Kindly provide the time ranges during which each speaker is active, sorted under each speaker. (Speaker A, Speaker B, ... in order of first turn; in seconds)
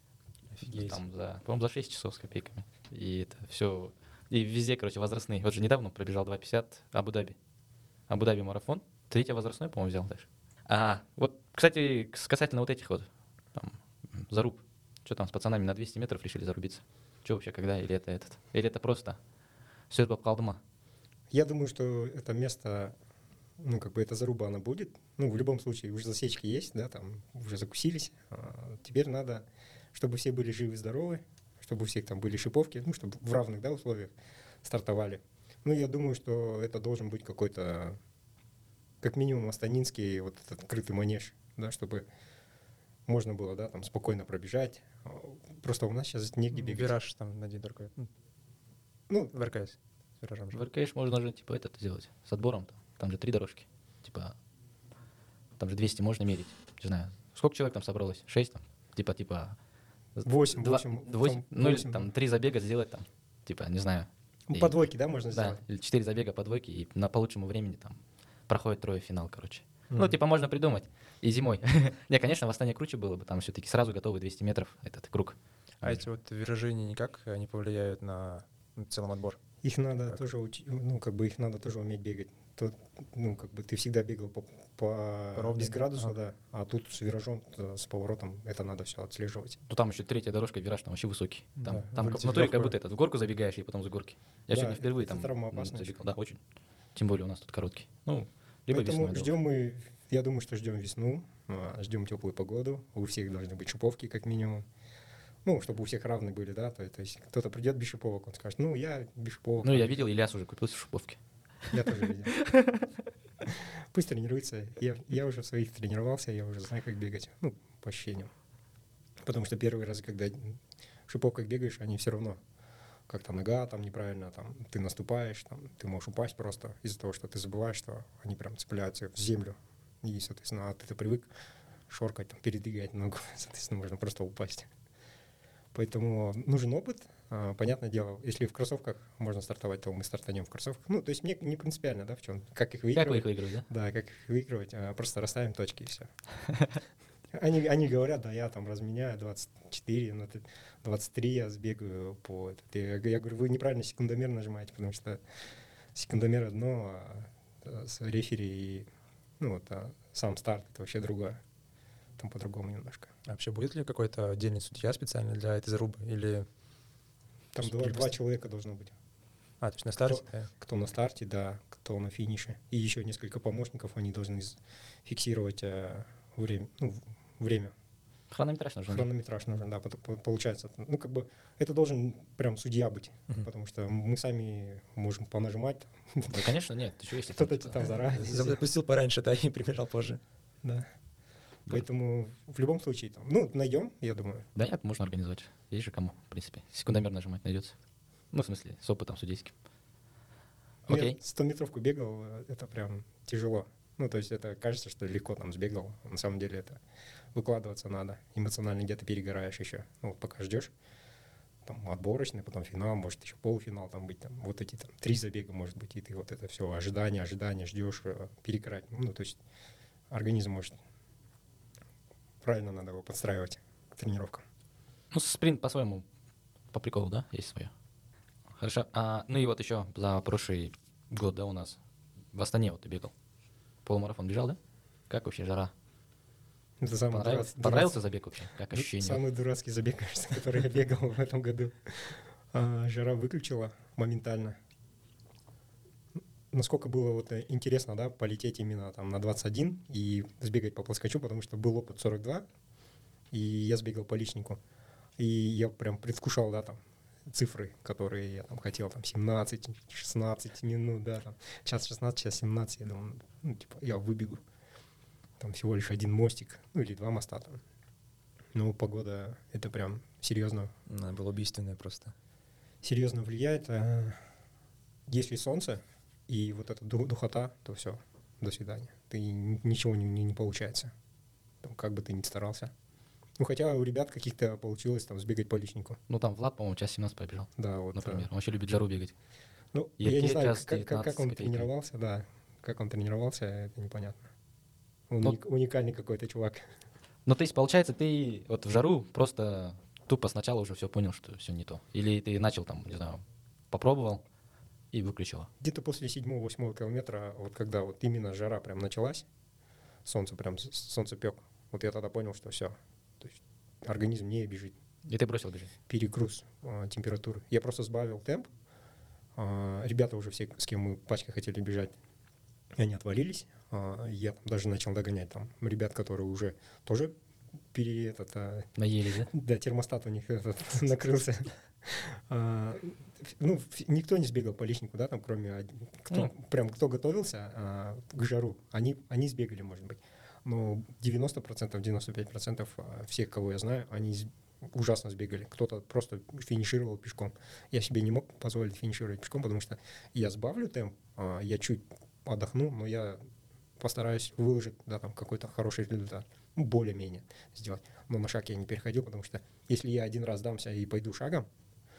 Speaker A: 0.5-1.0, 46.5-48.1, 49.3-50.6, 75.8-79.4, 85.3-86.1, 91.6-92.7, 163.2-166.5, 167.6-168.1, 169.6-170.5, 188.2-190.2, 270.9-272.1
Speaker B: 0.6-7.3, 8.1-19.2, 19.9-20.6, 50.5-54.3, 55.6-59.5, 60.1-64.7, 65.3-76.0, 89.7-96.4, 96.9-99.3, 109.6-111.7, 112.3-112.8, 142.9-143.7, 178.3-179.1, 186.3-187.9, 194.6-197.7, 198.3-199.5, 200.9-201.2, 225.1-226.0, 226.7-227.7, 228.6-231.8, 232.3-233.1, 233.8-235.7, 237.1-239.2, 286.1-289.1, 290.0-291.7, 297.2-304.2, 304.9-305.5, 315.1-315.7, 328.8-329.3
Speaker C: 21.3-22.9, 23.6-34.1, 34.6-38.0, 39.0-42.0, 43.0-46.9, 49.1-49.3, 60.2-62.1, 64.5-65.6, 79.6-89.6, 94.5-96.0, 98.7-104.7, 105.4-110.0, 111.7-112.3, 113.4-118.3, 119.2-122.4, 123.1-131.3, 131.9-134.7, 135.7-146.1, 147.3-155.2, 155.9-158.9, 159.4-161.4, 162.2-163.1, 167.5-168.9, 170.0-177.7, 178.9-186.5, 187.3-188.6, 190.6-190.9, 191.7-194.5, 200.9-206.8, 207.3-210.7, 211.6-219.4, 220.1-220.8, 222.4-224.4, 236.8-238.0, 238.7-244.6, 246.5-252.4, 253.3-254.6, 255.2-264.4, 265.4-267.6, 268.5-270.7, 272.8-274.2, 275.1-280.9, 281.6-282.7, 283.4-286.0, 287.6-288.3, 289.7-294.2, 295.1-296.7, 305.6-309.2, 310.0-314.7, 315.9-318.5, 319.4-321.9, 322.7-327.1, 327.7-328.7, 329.3-353.2, 353.8-361.5